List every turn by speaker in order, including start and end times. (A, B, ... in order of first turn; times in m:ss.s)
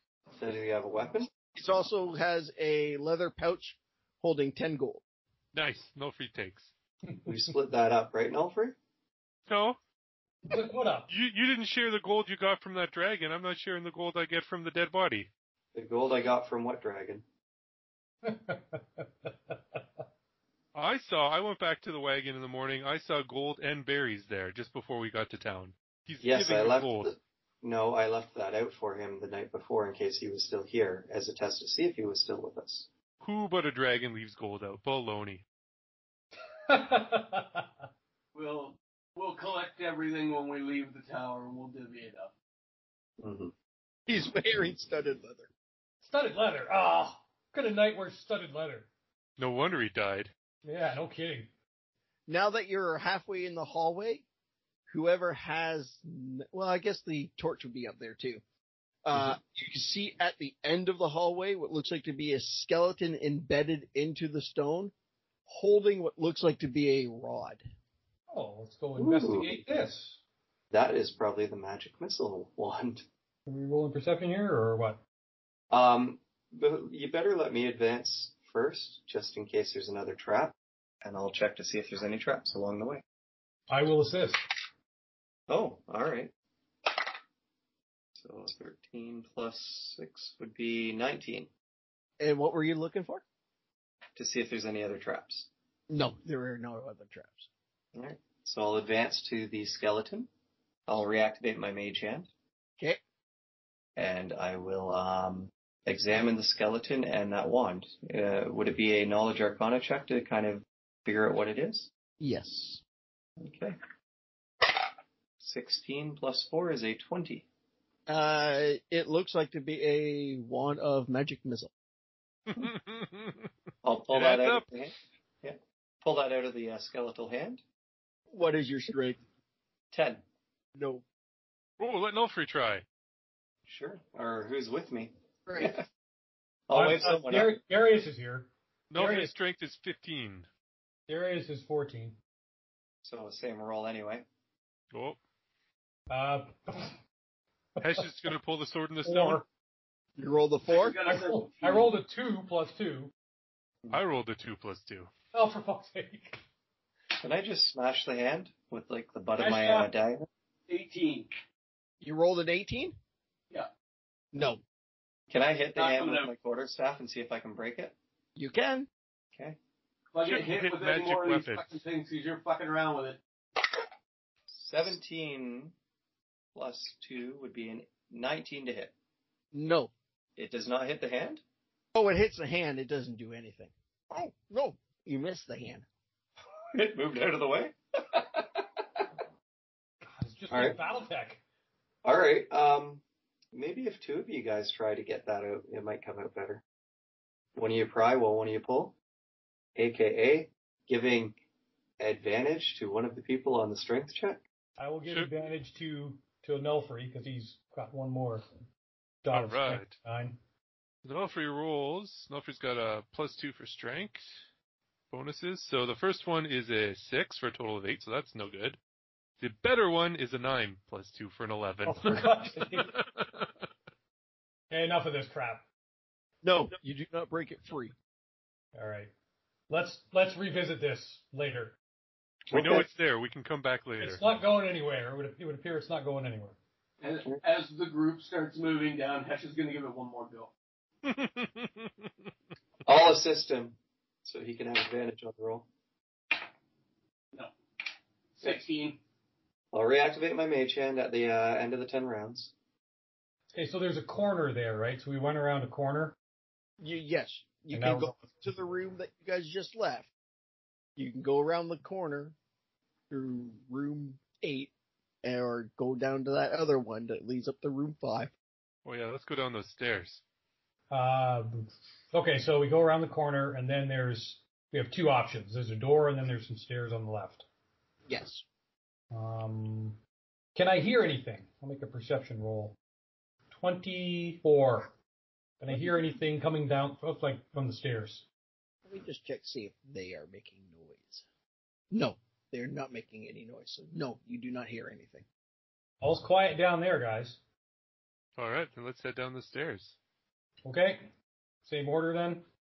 0:00.3-0:01.3 A
0:01.5-0:05.0 B
0:05.5-0:06.7 C
0:07.1-0:07.3 D
0:07.2-0:08.7 A
0:09.5-0:09.8 C
0:10.5-0:11.1 D
0:11.1-0:15.3 C
0:15.7-0:17.2 A
0:18.2-0:19.8 D
0:20.7-0:27.1 C
0:26.2-0:32.9 A
0:33.2-0:35.4 C
0:36.7-0:37.7 D
0:38.3-0:42.3 E
0:43.2-0:43.5 A
0:44.1-0:45.5 B
0:46.0-0:48.9 D
0:49.4-0:50.3 C
0:50.6-0:51.5 D
0:52.3-0:54.2 B
0:54.9-0:58.4 B
0:59.0-1:04.9 B
1:05.5-1:07.6 B
1:08.3-1:10.2 D
1:09.0-1:09.5 A
1:10.7-1:13.0 A
1:13.4-1:15.0 D
1:15.7-1:23.0 A
1:23.7-1:24.4 D
1:25.5-1:26.3 A
1:28.2-1:31.5 A
1:32.2-1:33.2 B
1:34.2-1:35.5 A
1:35.9-1:37.5 B
1:37.9-1:40.3 A
1:40.9-1:42.3 A
1:44.0-1:51.9 A
1:52.2-1:52.8 B
1:53.4-1:53.8 A
1:55.4-1:57.4 A
1:58.1-2:01.7 B
2:02.5-2:03.5 C
2:03.8-2:07.6 A
2:04.1-2:04.6 C
2:08.3-2:09.2 B
2:09.9-2:10.2 A
2:10.7-2:11.0 B
2:11.8-2:12.8 C
2:13.7-2:15.8 A
2:15.4-2:15.7 B
2:16.7-2:17.5 A
2:16.7-2:19.3 D
2:18.9-2:20.5 C
2:21.1-2:22.2 D
2:23.0-2:24.2 A
2:24.9-2:25.2 C
2:26.1-2:27.0 D
2:27.8-2:28.1 D
2:27.8-2:29.4 C
2:29.0-2:29.4 D
2:30.2-2:31.0 B
2:30.7-2:31.9 E
2:31.0-2:33.1 D
2:33.9-2:35.1 C
2:35.3-2:36.4 D
2:37.2-2:40.3 A
2:39.4-2:39.9 D
2:40.7-2:41.3 E
2:42.0-2:43.0 B
2:44.3-2:44.6 B
2:45.3-2:47.9 A
2:45.8-2:46.3 E
2:48.4-2:48.9 B
2:50.1-2:53.2 E
2:50.2-2:51.7 C
2:54.5-2:55.7 A
2:56.5-2:58.9 A
2:59.5-2:59.9 B
3:00.4-3:01.4 A
3:01.9-3:05.8 B
3:06.7-3:09.0 A
3:10.2-3:11.4 D
3:10.5-3:10.8 A
3:12.0-3:13.0 A
3:13.5-3:16.6 A
3:17.5-3:18.9 A
3:19.8-3:21.3 A
3:22.0-3:24.4 A
3:24.8-3:28.6 D
3:29.2-3:30.4 D
3:29.3-3:29.9 C
3:31.0-3:34.3 C
3:35.1-3:38.8 C
3:39.4-3:43.5 C
3:41.8-3:42.9 D
3:44.7-3:45.6 D
3:46.4-3:47.9 B
3:48.7-3:49.1 D
3:49.7-3:51.8 D
3:52.5-3:54.2 C
3:52.5-3:52.8 B
3:54.0-3:56.6 D
3:57.0-4:00.5 E
4:01.0-4:02.1 C
4:02.8-4:05.7 A
4:08.4-4:09.0 E
4:09.7-4:12.5 A
4:13.5-4:16.2 D
4:16.8-4:20.1 B
4:17.7-4:18.2 D
4:21.0-4:22.3 B
4:23.1-4:24.7 B
4:25.2-4:28.3 B
4:28.8-4:30.2 C
4:30.9-4:37.4 D
4:38.1-4:38.4 B
4:39.1-4:40.0 D
4:40.5-4:42.8 D
4:43.5-4:44.9 D
4:45.6-4:48.2 D
4:48.8-4:51.2 B
4:51.9-4:55.2 B
4:56.0-4:57.4 D
4:58.4-5:00.0 C
5:00.6-5:01.1 D
5:01.6-5:02.4 D